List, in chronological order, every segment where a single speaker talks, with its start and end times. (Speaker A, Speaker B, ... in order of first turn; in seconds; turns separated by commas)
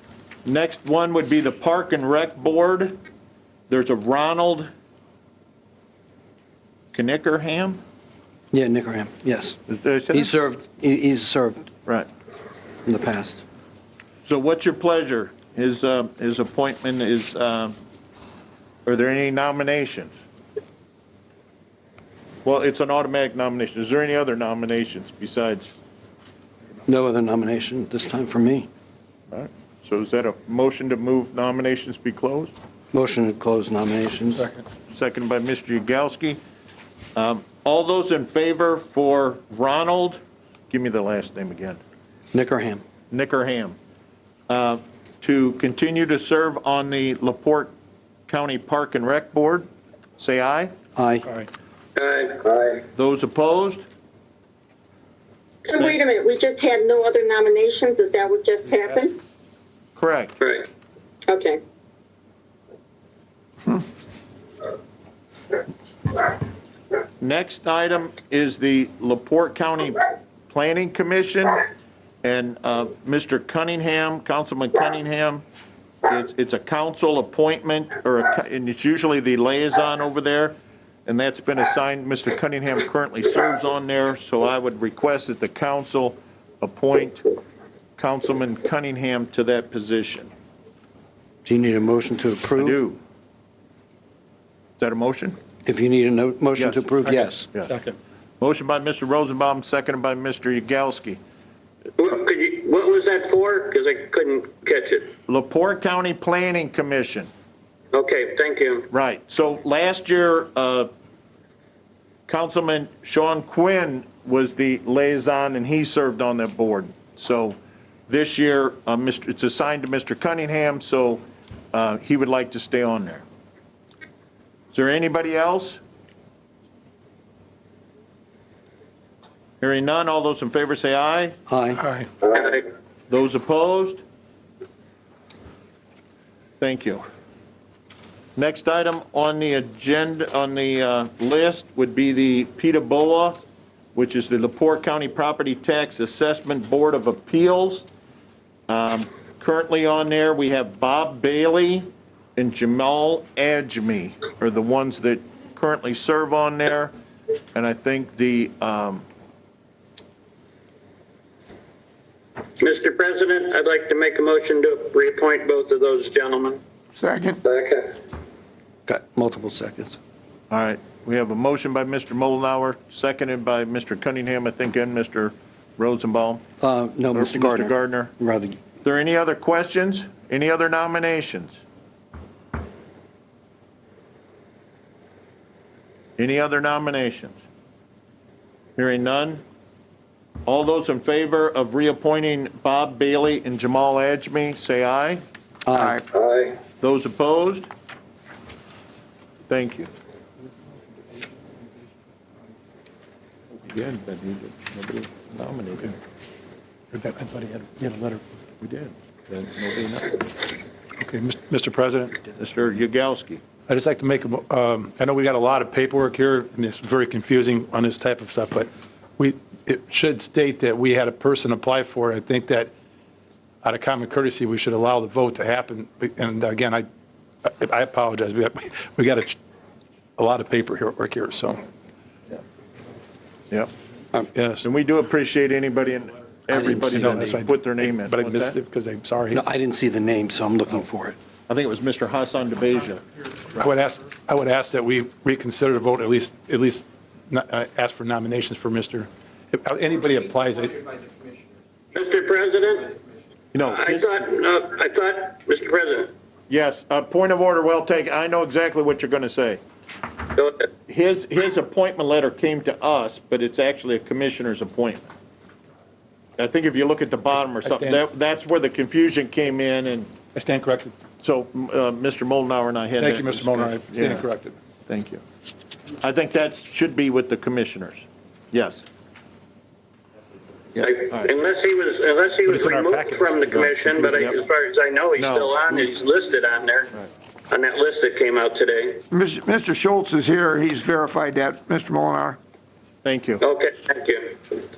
Speaker A: 0.4-3.0, Speaker A: 3.7-4.7, Speaker A: 6.9-7.8, Speaker B: 8.5-9.6, Speaker A: 9.7-10.3, Speaker B: 10.1-11.7, Speaker B: 12.8-13.4, Speaker A: 14.2-17.8, Speaker A: 18.8-20.1, Speaker A: 22.4-25.7, Speaker B: 26.9-28.7, Speaker A: 29.3-32.5, Speaker B: 32.9-34.5, Speaker A: 34.9-36.4, Speaker A: 37.1-41.8, Speaker B: 42.3-42.8, Speaker A: 43.1-43.8, Speaker A: 44.5-47.7, Speaker A: 48.3-50.7, Speaker B: 51.0-51.2, Speaker C: 52.0-52.6, Speaker A: 52.8-53.8, Speaker D: 55.6-59.2, Speaker A: 60.0-60.3, Speaker C: 60.4-60.7, Speaker D: 61.3-61.6, Speaker A: 67.2-71.6, Speaker A: 72.2-75.4, Speaker A: 76.0-87.2, Speaker A: 88.0-90.3, Speaker B: 91.4-92.8, Speaker A: 92.6-93.0, Speaker A: 94.8-95.4, Speaker B: 95.6-97.5, Speaker A: 96.6-97.7, Speaker E: 97.1-98.0, Speaker A: 98.4-101.2, Speaker C: 102.0-105.1, Speaker A: 105.3-107.3, Speaker C: 107.9-108.9, Speaker A: 108.9-110.9, Speaker A: 112.3-117.6, Speaker A: 118.1-123.2, Speaker A: 124.7-125.8, Speaker A: 129.6-131.3, Speaker B: 131.5-131.8, Speaker E: 131.8-132.1, Speaker C: 132.3-132.6, Speaker A: 133.1-134.0, Speaker A: 136.6-137.0, Speaker A: 138.3-143.4, Speaker A: 143.9-147.8, Speaker A: 148.7-156.9, Speaker A: 157.5-159.1, Speaker C: 162.6-166.6, Speaker F: 166.9-167.4, Speaker C: 167.4-167.8, Speaker B: 168.9-170.0, Speaker A: 170.5-176.4, Speaker B: 176.6-178.6, Speaker A: 177.1-178.1, Speaker A: 178.8-181.6, Speaker A: 186.2-187.4, Speaker A: 188.8-189.4, Speaker A: 190.4-195.2, Speaker B: 195.7-196.0, Speaker F: 195.7-196.0, Speaker C: 196.1-196.5, Speaker A: 196.8-197.7, Speaker A: 199.5-199.9, Speaker A: 203.7-206.0, Speaker E: 206.9-208.2, Speaker A: 208.6-210.3, Speaker E: 211.0-212.2, Speaker A: 212.4-213.4, Speaker E: 213.7-222.7, Speaker E: 223.6-226.8, Speaker E: 227.4-229.4, Speaker E: 230.2-231.6, Speaker E: 234.3-234.7, Speaker A: 234.6-238.6, Speaker B: 236.5-237.3, Speaker E: 236.9-239.4, Speaker B: 239.3-241.2, Speaker A: 241.5-243.0, Speaker E: 243.5-250.9, Speaker C: 251.9-252.9, Speaker A: 253.5-254.2, Speaker C: 253.6-256.1, Speaker A: 256.5-259.6, Speaker A: 260.9-265.1, Speaker A: 266.4-270.1, Speaker E: 267.3-268.0, Speaker E: 270.3-270.9, Speaker A: 271.2-274.3, Speaker E: 273.0-274.6, Speaker A: 274.9-275.2, Speaker A: 276.0-278.8, Speaker A: 280.7-281.3, Speaker C: 280.8-286.9, Speaker E: 282.4-284.3, Speaker A: 283.5-284.4, Speaker A: 285.2-285.6, Speaker C: 287.5-289.0, Speaker F: 289.1-292.4, Speaker A: 293.0-293.4, Speaker C: 293.4-294.3